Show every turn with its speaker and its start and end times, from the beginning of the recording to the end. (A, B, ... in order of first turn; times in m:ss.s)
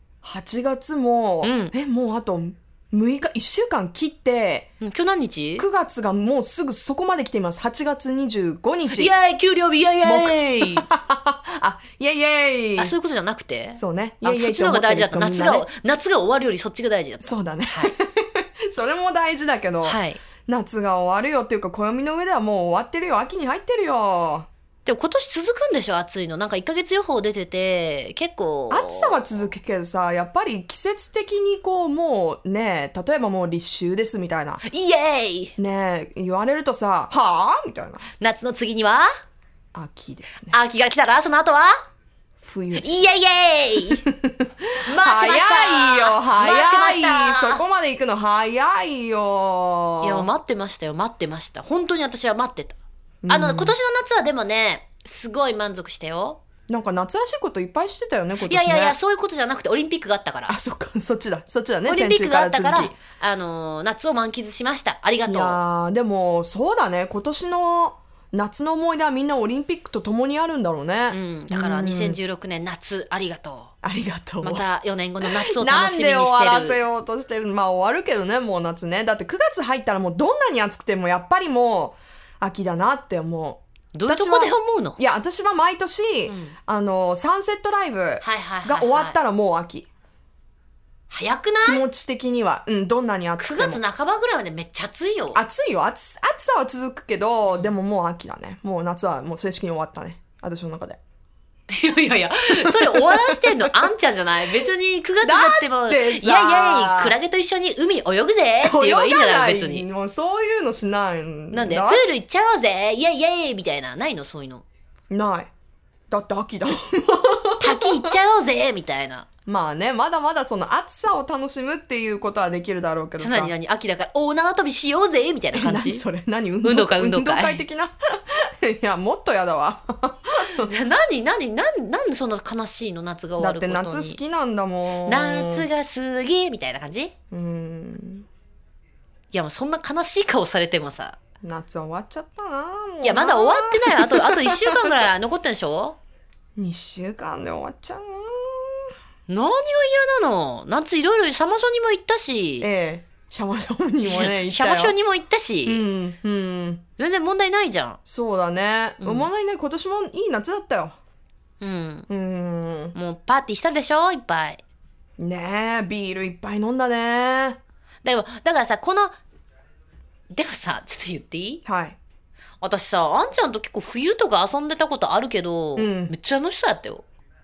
0:00.2-0:04.7 A
0:01.4-0:01.7 B
0:04.8-0:05.6 B
0:05.6-0:09.1 A
0:08.9-0:10.9 B
0:10.0-0:12.9 A
0:12.8-0:18.0 B
0:13.7-0:15.7 A
0:17.2-0:24.5 A
0:19.8-0:20.2 B
0:24.8-0:29.5 B
0:28.7-0:34.6 A
0:34.6-0:35.6 B
0:35.6-0:38.1 A
0:38.2-0:39.1 B
0:39.7-0:40.6 A
0:40.5-0:41.8 B
0:42.4-0:43.0 A
0:42.8-0:44.0 B
0:44.0-0:50.3 A
0:44.9-0:47.6 B
0:50.0-0:56.4 B
0:53.2-0:53.8 A
0:56.7-0:59.0 A
0:58.4-1:00.6 B
1:00.5-1:03.0 A
1:01.9-1:05.6 B
1:05.2-1:12.2 A
1:11.1-1:13.7 B
1:13.8-1:14.6 A
1:14.4-1:16.8 B
1:15.2-1:29.9 A
1:23.9-1:25.0 B
1:26.3-1:26.6 B
1:28.2-1:29.2 B
1:31.1-1:31.8 B
1:31.6-1:33.8 A
1:33.4-1:35.4 B
1:35.4-1:41.0 A
1:41.7-1:49.9 B
1:42.7-1:43.9 A
1:45.2-1:47.2 A
1:48.6-1:52.1 A
1:51.5-1:54.6 B
1:55.1-1:55.5 A
1:56.1-1:58.1 A
1:57.6-1:59.3 B
1:59.5-2:03.5 A
2:03.2-2:06.1 B
2:05.5-2:10.7 A
2:06.6-2:07.6 B
2:10.6-2:14.2 B
2:13.4-2:15.7 A
2:15.0-2:17.1 B
2:17.3-2:18.3 A
2:19.3-2:21.2 B
2:21.4-2:24.9 A
2:23.0-2:26.0 B
2:26.6-2:28.9 A
2:29.3-2:32.7 B
2:32.6-2:35.0 A
2:34.1-2:35.8 B
2:35.6-2:36.8 A
2:37.0-2:38.0 B
2:38.1-2:41.0 A
2:39.0-2:39.3 B
2:41.6-2:42.1 B
2:42.1-2:43.0 A
2:42.9-2:44.6 B
2:45.2-2:47.6 A
2:48.0-2:49.2 B
2:50.3-2:51.6 B
2:51.6-2:52.0 A
2:52.6-2:57.0 B
2:55.8-2:56.1 A